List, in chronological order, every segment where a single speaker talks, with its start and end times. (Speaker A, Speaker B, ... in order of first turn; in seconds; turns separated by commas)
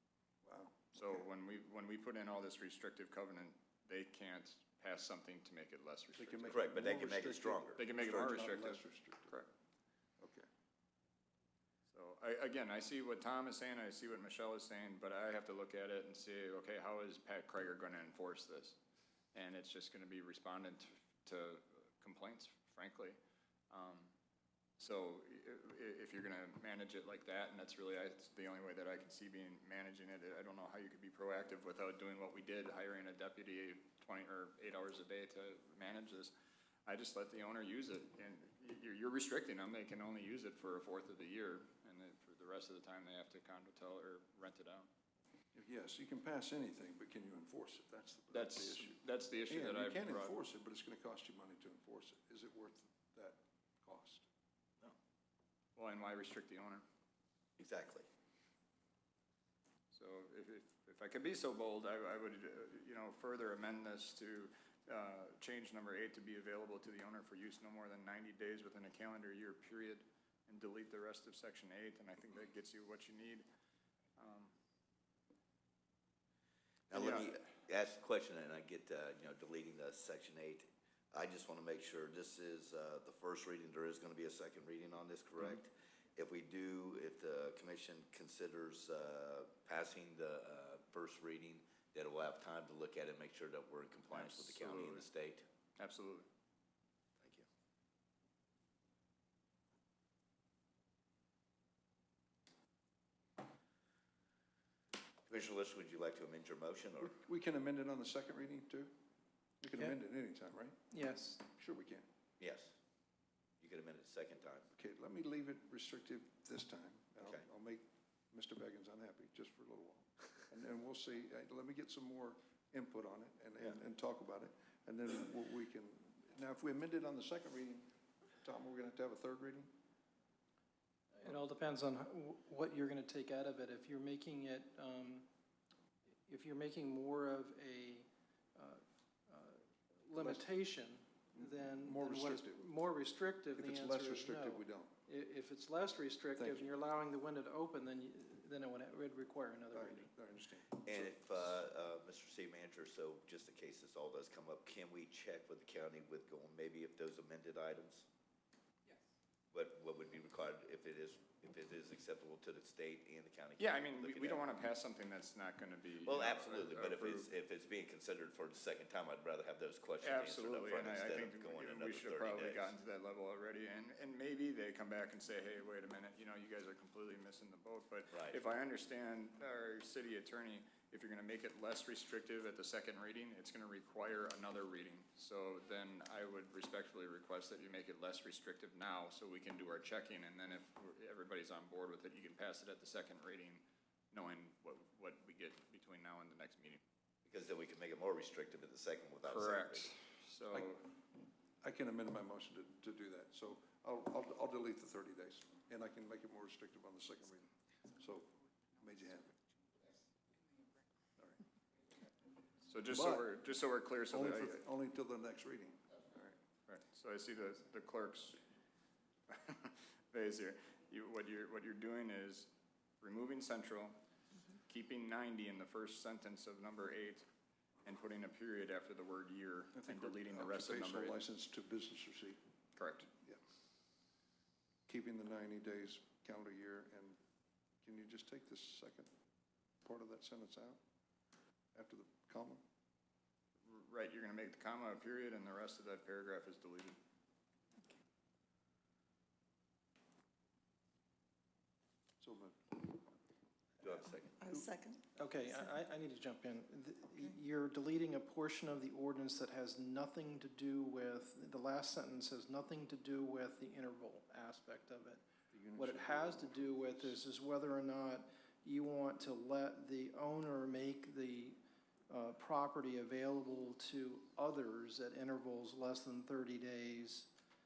Speaker A: 0.4-1.2, Speaker B: 0.9-6.6, Speaker A: 6.1-9.4, Speaker C: 6.5-7.8, Speaker B: 7.8-9.5, Speaker A: 10.2-10.5, Speaker B: 11.9-18.8, Speaker B: 19.3-23.2, Speaker B: 23.7-24.1, Speaker B: 24.8-36.3, Speaker B: 36.9-44.9, Speaker A: 45.5-54.3, Speaker B: 48.3-50.4, Speaker B: 55.8-56.8, Speaker C: 57.6-58.0, Speaker B: 59.9-73.5, Speaker B: 74.2-74.5, Speaker C: 76.9-95.5, Speaker B: 76.9-77.3, Speaker B: 94.1-95.1, Speaker B: 95.8-96.3, Speaker C: 97.2-97.5, Speaker C: 105.3-107.2, Speaker A: 107.0-108.9, Speaker A: 109.6-110.8, Speaker D: 110.9-111.4, Speaker A: 111.5-112.1, Speaker C: 112.4-112.8, Speaker C: 113.6-114.7, Speaker A: 114.8-127.9, Speaker A: 128.4-129.7, Speaker D: 131.2-135.2, Speaker D: 136.3-150.1, Speaker A: 140.2-140.5, Speaker A: 141.3-142.7, Speaker A: 143.6-144.9, Speaker A: 146.4-146.7, Speaker A: 149.7-151.2, Speaker C: 150.8-158.1, Speaker C: 159.5-164.6, Speaker B: 163.6-167.3, Speaker C: 166.0-172.7, Speaker B: 170.0-196.8, Speaker C: 178.1-178.4, Speaker C: 197.2-199.9, Speaker B: 199.2-200.8, Speaker A: 200.5-200.9, Speaker A: 201.6-209.4, Speaker B: 212.7-214.6, Speaker A: 212.9-213.3, Speaker A: 214.1-216.3, Speaker B: 216.7-218.4, Speaker B: 219.3-223.9, Speaker B: 224.7-227.2, Speaker B: 227.8-231.2, Speaker A: 229.7-232.4, Speaker B: 232.8-233.1, Speaker A: 234.9-237.2, Speaker A: 237.8-239.1, Speaker A: 239.8-240.8, Speaker A: 241.7-242.6, Speaker B: 243.7-247.0, Speaker A: 252.2-252.8, Speaker C: 253.8-254.7, Speaker D: 255.2-265.2, Speaker A: 265.5-267.2, Speaker D: 265.8-271.6, Speaker D: 272.1-277.3